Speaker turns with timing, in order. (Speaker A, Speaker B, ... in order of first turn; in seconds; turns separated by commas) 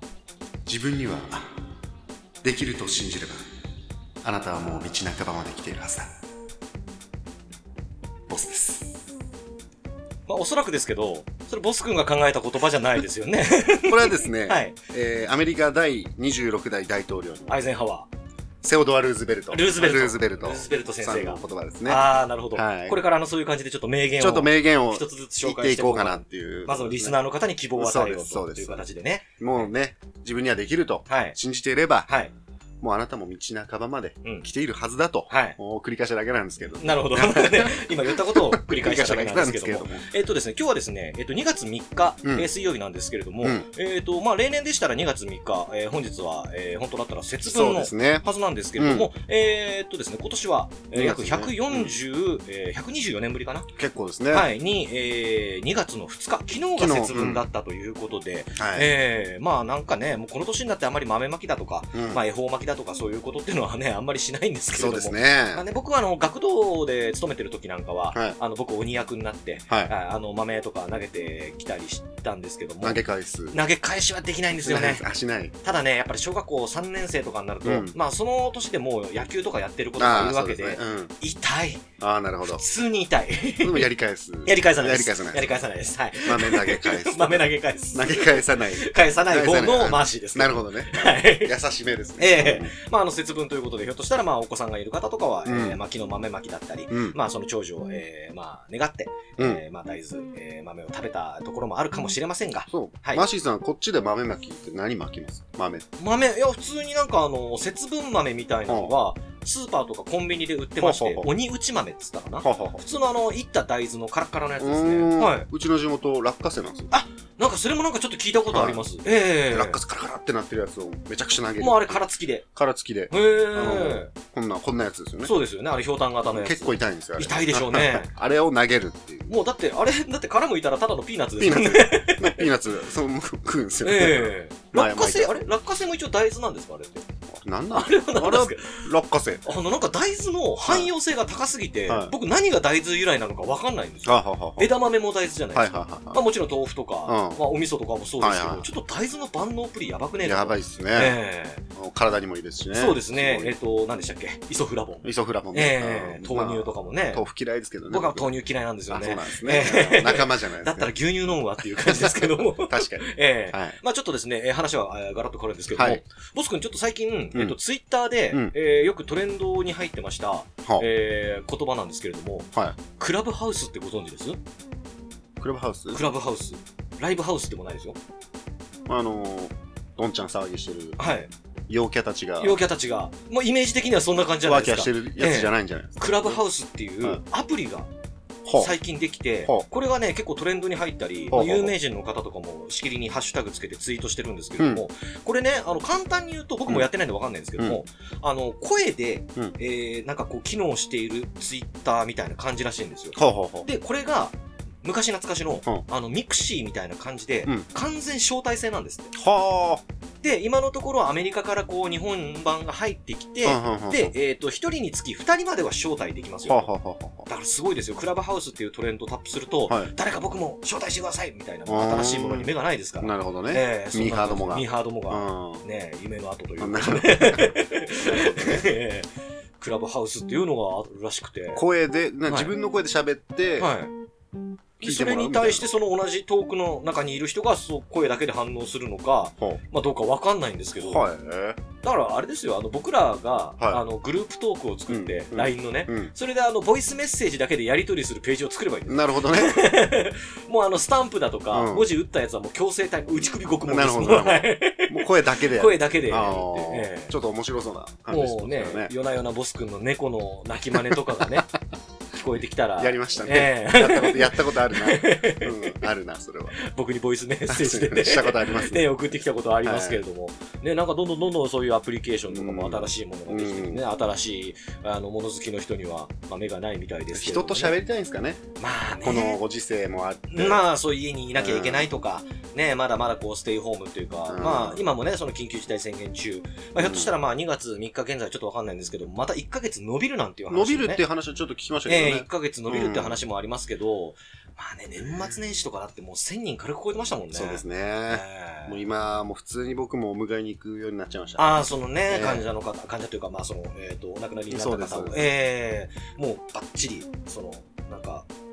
Speaker A: 0.7-1.5, Speaker A: 2.4-3.5, Speaker A: 4.2-6.1, Speaker A: 8.3-8.9, Speaker B: 10.3-14.8, Speaker A: 13.9-17.6, Speaker B: 17.5-18.1, Speaker A: 18.6-23.0, Speaker B: 19.5-29.7, Speaker A: 24.2-27.2, Speaker A: 27.8-28.9, Speaker A: 29.4-32.1, Speaker B: 31.1-31.4, Speaker A: 32.8-40.1, Speaker B: 35.3-35.6, Speaker B: 36.8-53.7, Speaker A: 43.4-43.7, Speaker A: 47.4-49.1, Speaker A: 50.9-51.9, Speaker A: 53.8-54.5, Speaker B: 54.3-75.0, Speaker A: 56.8-57.4, Speaker A: 58.6-58.9, Speaker A: 61.9-62.2, Speaker A: 64.7-65.6, Speaker A: 72.8-73.6, Speaker A: 74.6-75.5, Speaker B: 75.6-81.8, Speaker A: 77.6-78.0, Speaker A: 80.0-81.1, Speaker A: 82.0-82.6, Speaker B: 82.5-83.9, Speaker A: 83.6-85.6, Speaker B: 84.5-91.5, Speaker A: 86.2-92.7, Speaker B: 92.2-103.3, Speaker A: 95.5-95.8, Speaker A: 96.9-97.2, Speaker A: 102.7-105.9, Speaker B: 106.0-115.5, Speaker A: 108.7-108.9, Speaker A: 110.8-111.3, Speaker A: 112.4-112.8, Speaker A: 114.6-116.9, Speaker B: 116.9-119.8, Speaker A: 118.5-118.8, Speaker A: 119.5-125.3, Speaker B: 121.6-122.5, Speaker B: 123.1-124.1, Speaker B: 125.2-128.1, Speaker A: 126.3-129.4, Speaker B: 129.3-132.4, Speaker A: 131.4-135.4, Speaker B: 133.8-137.1, Speaker A: 137.3-139.5, Speaker B: 137.7-138.8, Speaker B: 139.4-151.6, Speaker A: 141.9-142.1, Speaker A: 144.1-144.7, Speaker A: 145.5-146.2, Speaker A: 147.1-147.4, Speaker A: 148.2-148.7, Speaker A: 150.2-151.2, Speaker A: 151.7-153.5, Speaker B: 152.7-157.2, Speaker A: 155.0-158.3, Speaker B: 157.9-174.4, Speaker A: 158.9-160.9, Speaker A: 161.8-163.8, Speaker A: 165.8-166.0, Speaker A: 175.4-176.0, Speaker B: 175.9-178.0, Speaker A: 178.9-181.0, Speaker B: 181.0-181.3, Speaker A: 181.7-182.6, Speaker B: 182.4-187.9, Speaker A: 184.4-186.4, Speaker A: 188.4-188.7, Speaker B: 188.6-209.1, Speaker A: 191.3-191.8, Speaker A: 194.6-194.8, Speaker A: 203.2-203.7, Speaker A: 209.2-209.8, Speaker B: 210.2-216.7, Speaker A: 213.4-214.1, Speaker A: 216.4-217.3, Speaker B: 217.3-231.6, Speaker A: 221.7-225.6, Speaker A: 226.6-228.7, Speaker A: 231.5-233.7, Speaker B: 232.3-232.5, Speaker B: 233.6-233.9, Speaker A: 234.8-235.7, Speaker B: 234.8-241.1, Speaker A: 240.8-241.6, Speaker B: 241.8-257.1, Speaker A: 244.9-246.1, Speaker A: 248.9-249.7, Speaker A: 251.5-251.9, Speaker A: 253.7-258.9, Speaker B: 258.1-261.5, Speaker B: 262.1-265.8, Speaker A: 262.8-266.6, Speaker B: 266.6-277.8, Speaker A: 267.5-269.1, Speaker A: 269.6-270.0, Speaker A: 272.3-273.8, Speaker A: 277.1-278.5, Speaker B: 278.6-279.4, Speaker A: 279.0-280.7, Speaker B: 280.3-291.0, Speaker A: 281.4-281.9, Speaker A: 284.3-284.8, Speaker A: 286.8-287.1, Speaker A: 290.5-293.2, Speaker B: 291.9-298.8, Speaker A: 297.3-302.5, Speaker B: 301.4-308.3, Speaker A: 304.5-305.3